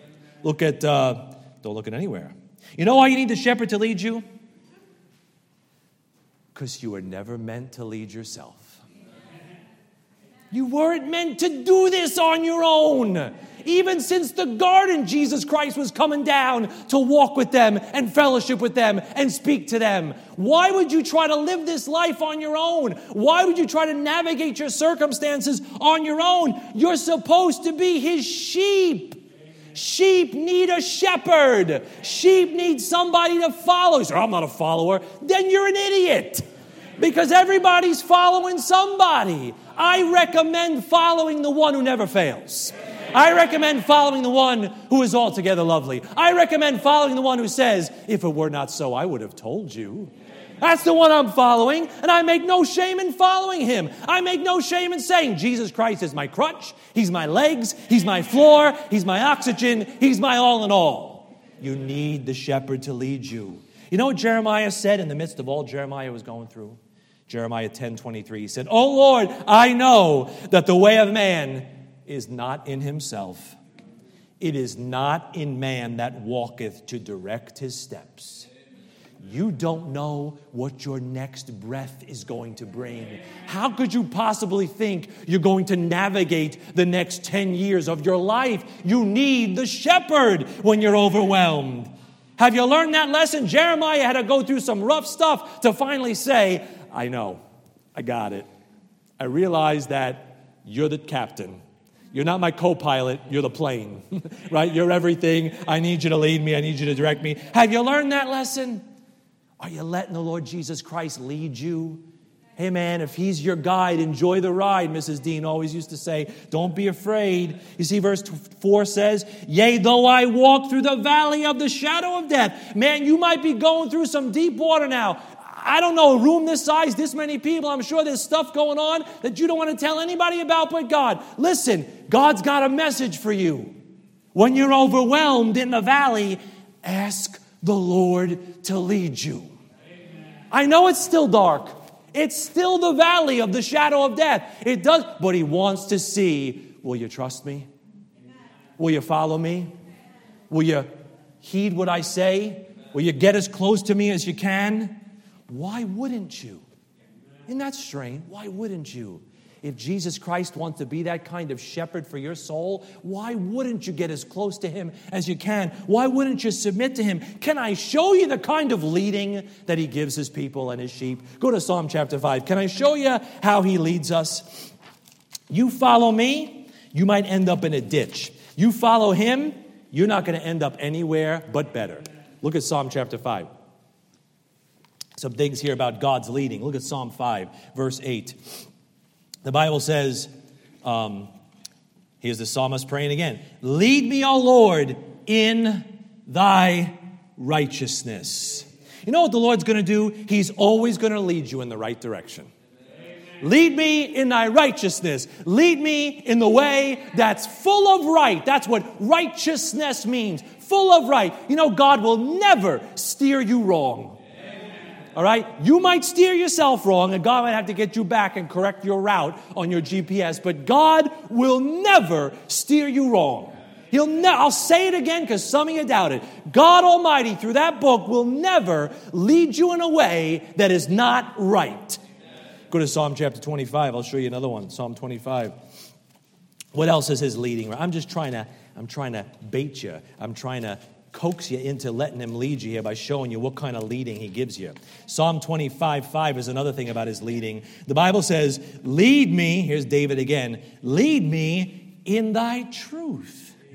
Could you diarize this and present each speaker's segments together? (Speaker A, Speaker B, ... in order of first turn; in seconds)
Speaker A: 0.4-4.2, 6.5-8.8, 10.5-29.2, 29.7-36.4, 37.0-73.6, 74.4-78.5, 79.2-97.4, 97.9-98.5, 99.2-101.6, 102.1-108.8, 109.6-112.0, 112.6-133.8, 134.3-139.5, 140.5-147.7, 148.8-149.7, 150.5-150.9, 151.4-156.6, 157.5-174.7, 175.5-183.5, 185.2-188.6, 189.4-190.3, 190.8-191.3, 192.2-202.5, 203.4-214.2, 215.1-232.0, 232.7-235.5, 236.7-253.6